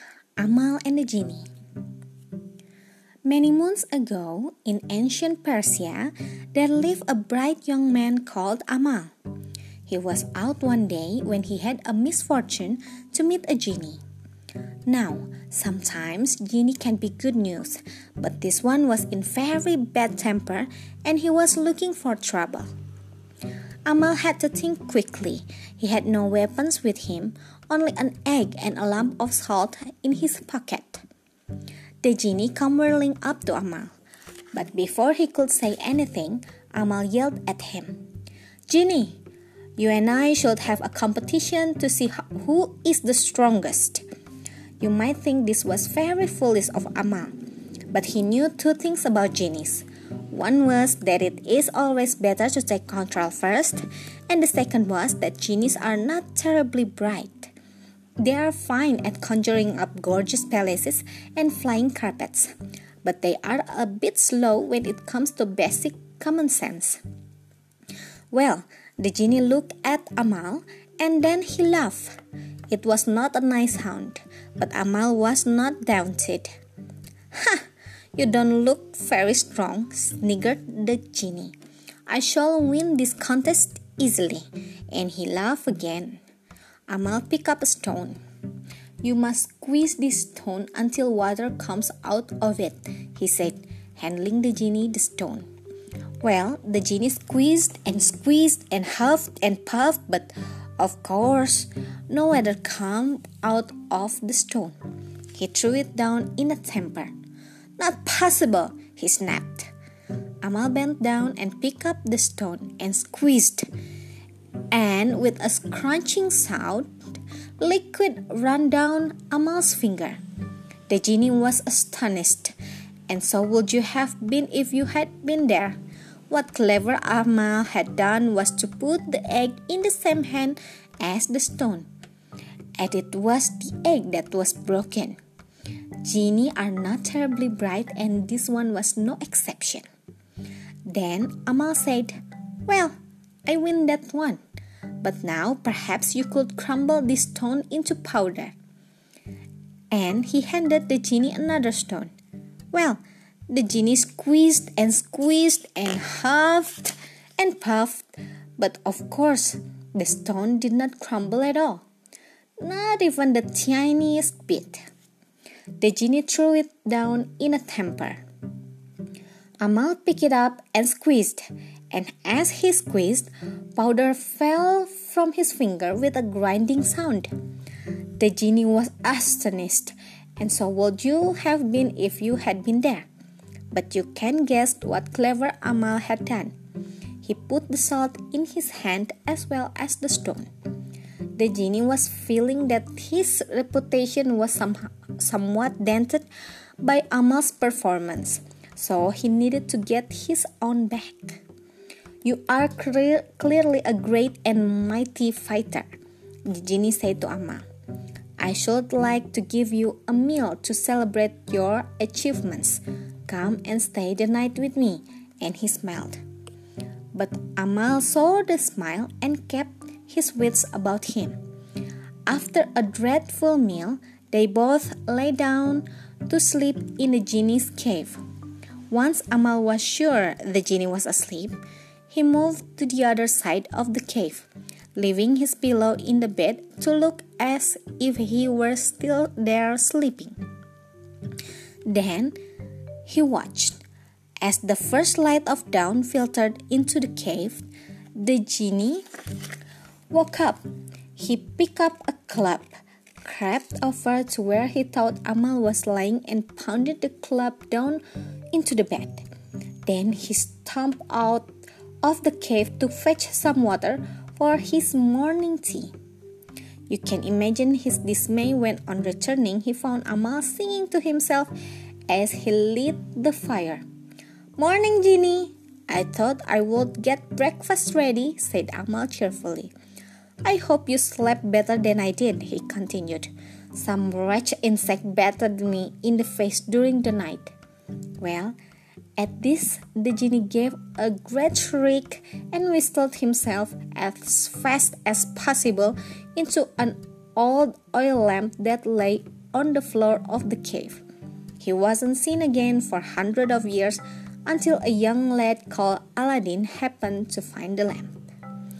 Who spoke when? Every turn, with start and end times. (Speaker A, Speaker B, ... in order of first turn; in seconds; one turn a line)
Speaker A: 0.4-1.5
Speaker A: 3.2-9.1
Speaker A: 9.8-14.0
Speaker A: 14.9-22.7
Speaker A: 23.9-31.0
Speaker A: 32.0-33.9
Speaker A: 34.5-38.0
Speaker A: 38.7-39.2
Speaker A: 39.8-44.0
Speaker A: 44.8-47.4
Speaker A: 47.9-57.5
Speaker A: 58.2-67.0
Speaker A: 68.3-72.2
Speaker A: 72.7-76.5
Speaker A: 77.3-77.7
Speaker A: 78.2-81.5
Speaker A: 82.1-86.2
Speaker A: 86.9-88.2
Speaker A: 89.0-95.5
Speaker A: 96.2-104.8
Speaker A: 105.3-107.1
Speaker A: 107.8-109.7
Speaker A: 110.4-113.7
Speaker A: 114.7-116.9
Speaker A: 117.6-120.2
Speaker A: 120.9-122.5
Speaker A: 123.1-125.8
Speaker A: 126.3-131.9
Speaker A: 132.8-135.2
Speaker A: 136.0-139.8
Speaker A: 140.9-144.4
Speaker A: 145.0-148.6
Speaker A: 149.9-152.1
Speaker A: 152.7-161.8
Speaker A: 162.6-164.8
Speaker A: 165.8-168.2
Speaker A: 169.6-177.3
Speaker A: 178.2-183.1
Speaker A: 183.7-186.6
Speaker A: 187.2-190.5
Speaker A: 191.3-196.3
Speaker A: 196.8-201.4
Speaker A: 202.2-205.9
Speaker A: 206.5-207.7
Speaker A: 208.4-216.2
Speaker A: 217.1-221.4
Speaker A: 222.3-228.2
Speaker A: 228.9-231.6
Speaker A: 232.1-240.4
Speaker A: 241.9-242.4
Speaker A: 243.1-243.8
Speaker A: 244.4-249.1
Speaker A: 250.1-250.6
Speaker A: 251.1-259.2
Speaker A: 259.9-261.5
Speaker A: 262.0-265.9
Speaker A: 266.9-271.5
Speaker A: 272.1-273.8
Speaker A: 274.6-279.7
Speaker A: 280.4-287.5
Speaker A: 288.2-288.6
Speaker A: 289.2-301.0
Speaker A: 301.6-308.2